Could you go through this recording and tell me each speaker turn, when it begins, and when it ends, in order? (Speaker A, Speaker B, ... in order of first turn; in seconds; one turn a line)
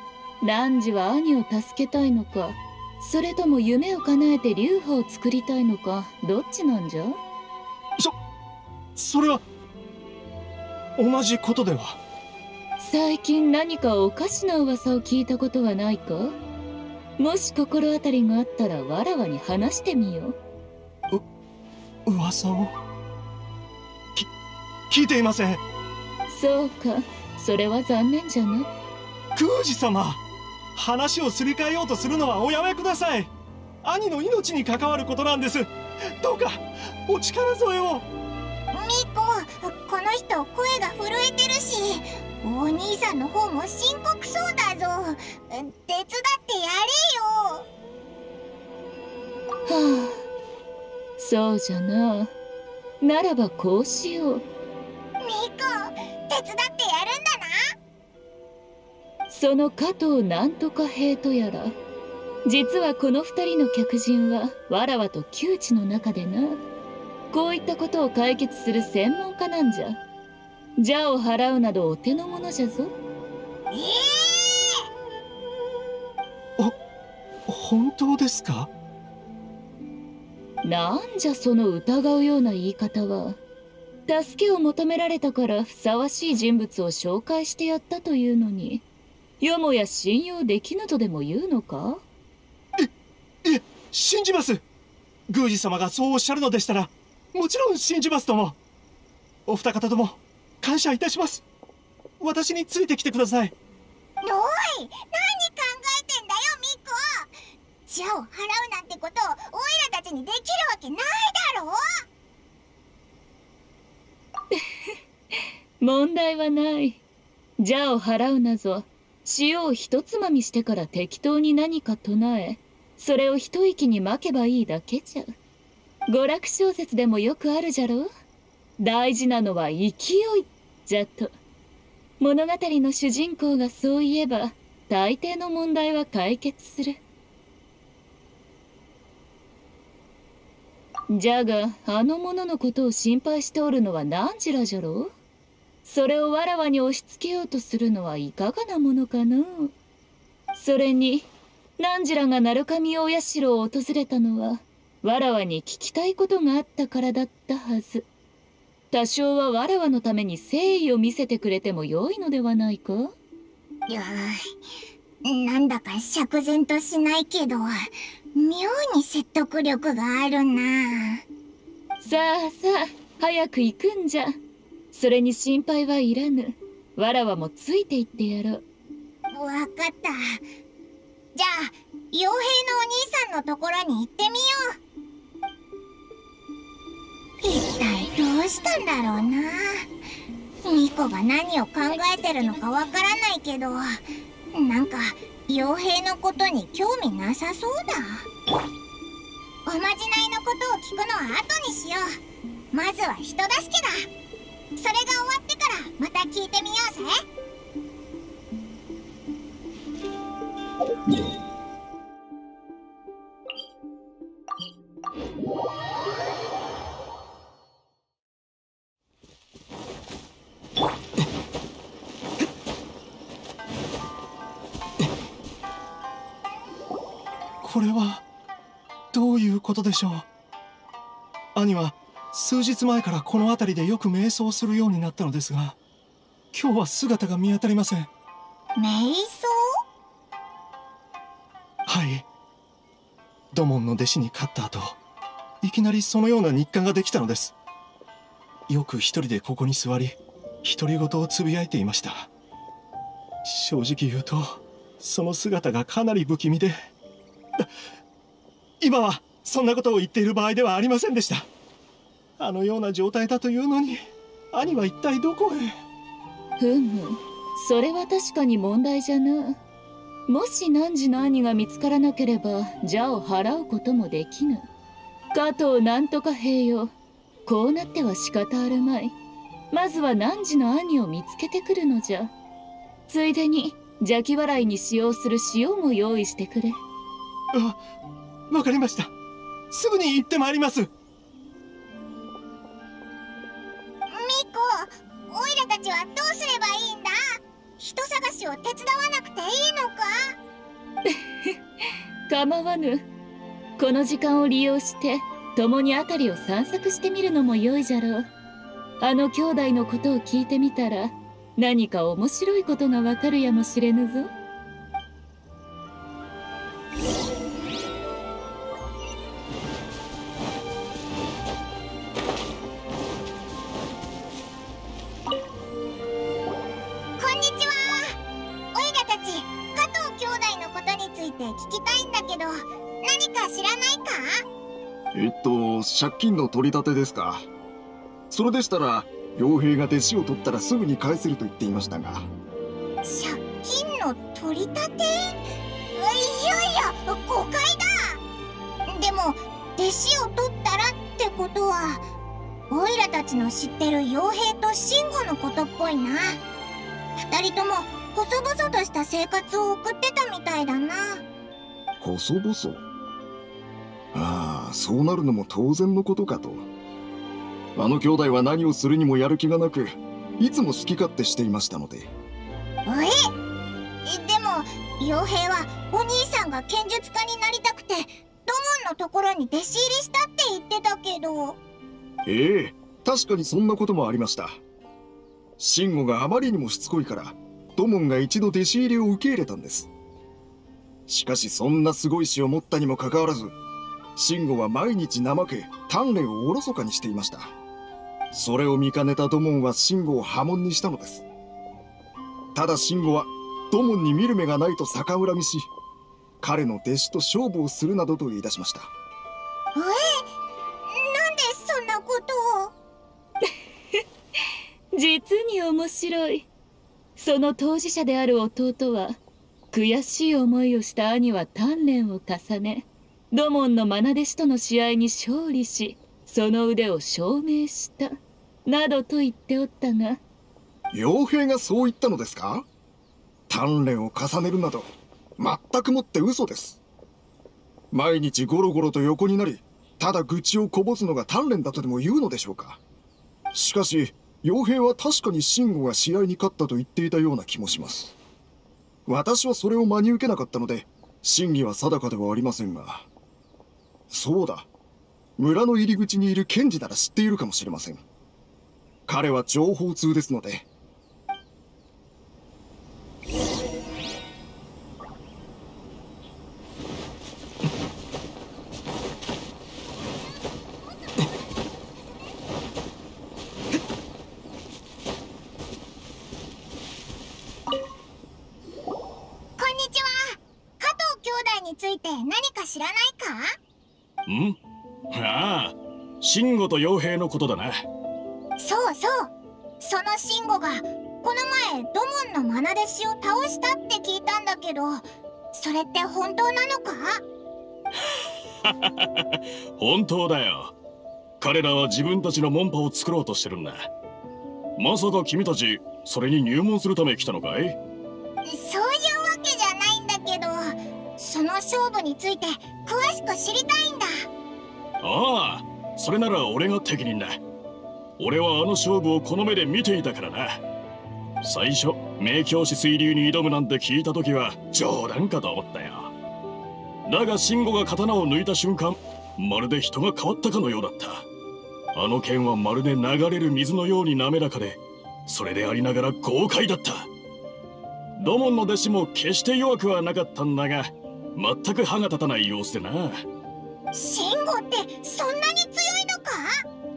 Speaker A: 0.4-7.2
Speaker B: 8.9-9.4
Speaker B: 11.0-12.0
Speaker A: 12.8-16.4
Speaker A: 17.2-20.4
Speaker B: 22.1-22.7
Speaker B: 24.9-25.6
Speaker A: 26.3-28.7
Speaker B: 29.3-30.2
Speaker B: 30.7-33.3
Speaker B: 33.8-38.0
Speaker C: 38.7-47.6
Speaker A: 49.6-50.2
Speaker A: 51.2-52.3
Speaker A: 53.0-54.4
Speaker C: 55.2-57.6
Speaker A: 59.3-61.8
Speaker A: 62.5-66.6
Speaker A: 67.3-70.0
Speaker A: 70.8-72.9
Speaker C: 73.7-74.8
Speaker B: 77.5-78.7
Speaker A: 80.6-83.4
Speaker A: 84.1-88.8
Speaker A: 89.4-92.0
Speaker B: 93.4-94.6
Speaker B: 95.3-98.6
Speaker B: 99.5-101.4
Speaker B: 102.2-103.5
Speaker C: 104.2-107.3
Speaker C: 107.9-111.8
Speaker A: 114.5-117.0
Speaker A: 117.6-125.3
Speaker A: 126.1-128.1
Speaker A: 128.8-131.3
Speaker A: 132.2-137.0
Speaker A: 141.1-145.1
Speaker A: 145.8-149.7
Speaker A: 150.5-158.1
Speaker A: 158.9-163.1
Speaker C: 163.9-164.5
Speaker C: 165.2-167.7
Speaker C: 168.3-171.2
Speaker A: 172.0-174.4
Speaker A: 174.9-178.6
Speaker C: 179.3-180.4
Speaker C: 181.3-184.8
Speaker C: 187.4-189.9
Speaker C: 190.7-198.3
Speaker A: 191.9-192.8
Speaker C: 199.7-202.1
Speaker C: 202.7-204.1
Speaker C: 204.8-207.2
Speaker B: 227.6-228.2
Speaker B: 229.1-230.2
Speaker B: 231.5-235.8
Speaker B: 236.5-238.1
Speaker C: 238.8-239.8
Speaker B: 241.9-242.2
Speaker B: 243.5-245.0
Speaker B: 245.6-247.5
Speaker B: 248.7-252.3
Speaker B: 253.4-256.7
Speaker B: 258.8-261.5
Speaker B: 262.4-265.7
Speaker A: 266.6-269.6
Speaker A: 270.3-274.7
Speaker A: 275.3-276.9
Speaker A: 277.4-279.1
Speaker A: 279.7-282.3
Speaker A: 283.1-286.8
Speaker B: 287.5-287.8
Speaker B: 288.5-289.1
Speaker B: 289.7-290.9
Speaker C: 294.1-300.1
Speaker A: 301.1-301.6
Speaker A: 302.3-303.0
Speaker A: 303.8-308.3
Speaker A: 309.0-314.3
Speaker C: 327.2-328.1
Speaker C: 328.7-334.4
Speaker D: 335.1-337.4
Speaker D: 338.3-342.3
Speaker C: 343.0-345.4
Speaker C: 345.9-348.2
Speaker C: 348.9-352.0
Speaker C: 352.7-356.4
Speaker C: 357.1-361.2
Speaker D: 362.0-362.8
Speaker D: 364.1-366.6
Speaker D: 367.8-372.1
Speaker C: 372.9-373.3
Speaker C: 374.0-381.6
Speaker D: 382.2-384.6
Speaker D: 385.6-389.9
Speaker D: 391.1-393.5
Speaker D: 394.1-397.5
Speaker D: 398.3-401.2
Speaker D: 402.5-405.7
Speaker D: 406.4-408.9
Speaker C: 409.8-410.2
Speaker C: 410.9-412.7
Speaker A: 414.9-416.5
Speaker A: 417.1-419.2
Speaker A: 419.7-428.1
Speaker A: 428.6-430.2
Speaker D: 430.9-432.6
Speaker D: 433.5-436.8
Speaker D: 437.9-442.8
Speaker D: 443.5-448.1
Speaker D: 449.1-453.1
Speaker D: 454.1-454.7
Speaker D: 455.4-458.0
Speaker D: 459.1-460.6
Speaker C: 479.6-483.5
Speaker E: 484.3-484.6
Speaker E: 485.1-487.9
Speaker C: 488.6-497.2
Speaker E: 498.6-500.7
Speaker E: 501.4-503.9
Speaker E: 504.8-507.8
Speaker C: 508.4-514.2
Speaker E: 515.0-517.4
Speaker E: 518.2-520.6
Speaker E: 521.4-526.1
Speaker E: 527.0-531.2
Speaker E: 531.9-537.1
Speaker E: 538.1-543.2
Speaker C: 543.9-546.6